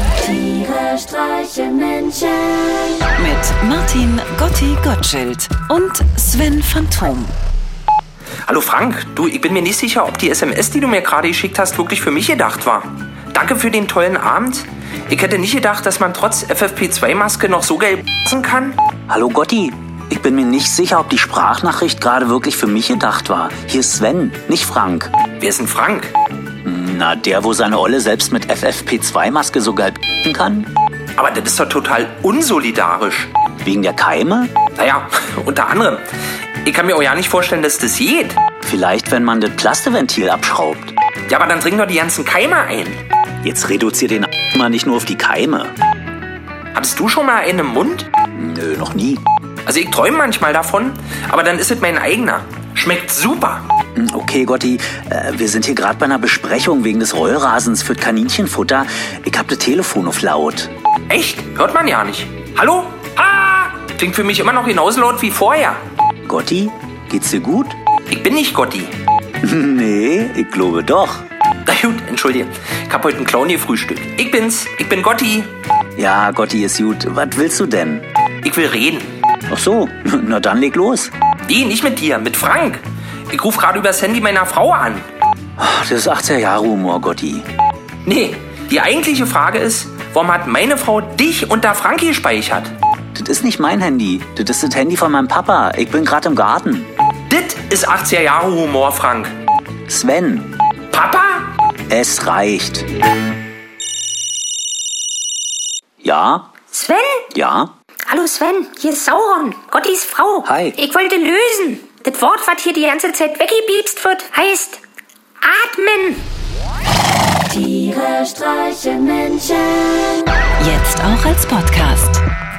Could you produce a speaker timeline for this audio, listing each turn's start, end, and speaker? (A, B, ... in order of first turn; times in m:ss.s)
0:00.2-0:07.3 A
0:00.3-0:02.4 B
0:08.5-0:18.8 C
0:19.1-0:25.1 D
0:25.4-0:26.1 C
0:26.6-0:30.7 D
0:31.2-0:33.3 C
0:33.6-0:34.5 D
0:34.8-0:36.0 C
0:36.6-0:38.4 C
0:38.6-0:40.9 D
0:41.3-0:43.0 C
0:43.4-0:45.7 D
0:46.7-0:48.1 C
0:48.4-0:49.2 D
0:49.7-0:53.6 C
0:54.0-1:00.7 D
1:01.1-1:05.8 C
1:06.3-1:07.8 D
1:08.1-1:08.9 C
1:09.4-1:11.2 D
1:11.7-1:15.5 C
1:16.0-1:18.0 D
1:18.4-1:19.1 C
1:19.5-1:21.1 D
1:21.5-1:25.0 C
1:25.6-1:27.4 D
1:28.0-1:32.7 C
1:33.2-1:36.9 D
1:37.3-1:39.3 C
1:39.9-1:40.5 D
1:40.9-1:41.5 C
1:41.9-1:42.8 D
1:46.0-1:46.5 D
1:46.7-1:47.3 E
1:47.3-1:47.7 D
1:48.1-1:54.8 E
1:50.4-1:50.8 D
1:55.4-1:56.2 E
1:57.5-1:59.5 B
1:59.6-2:00.3 E
2:00.6-2:02.2 A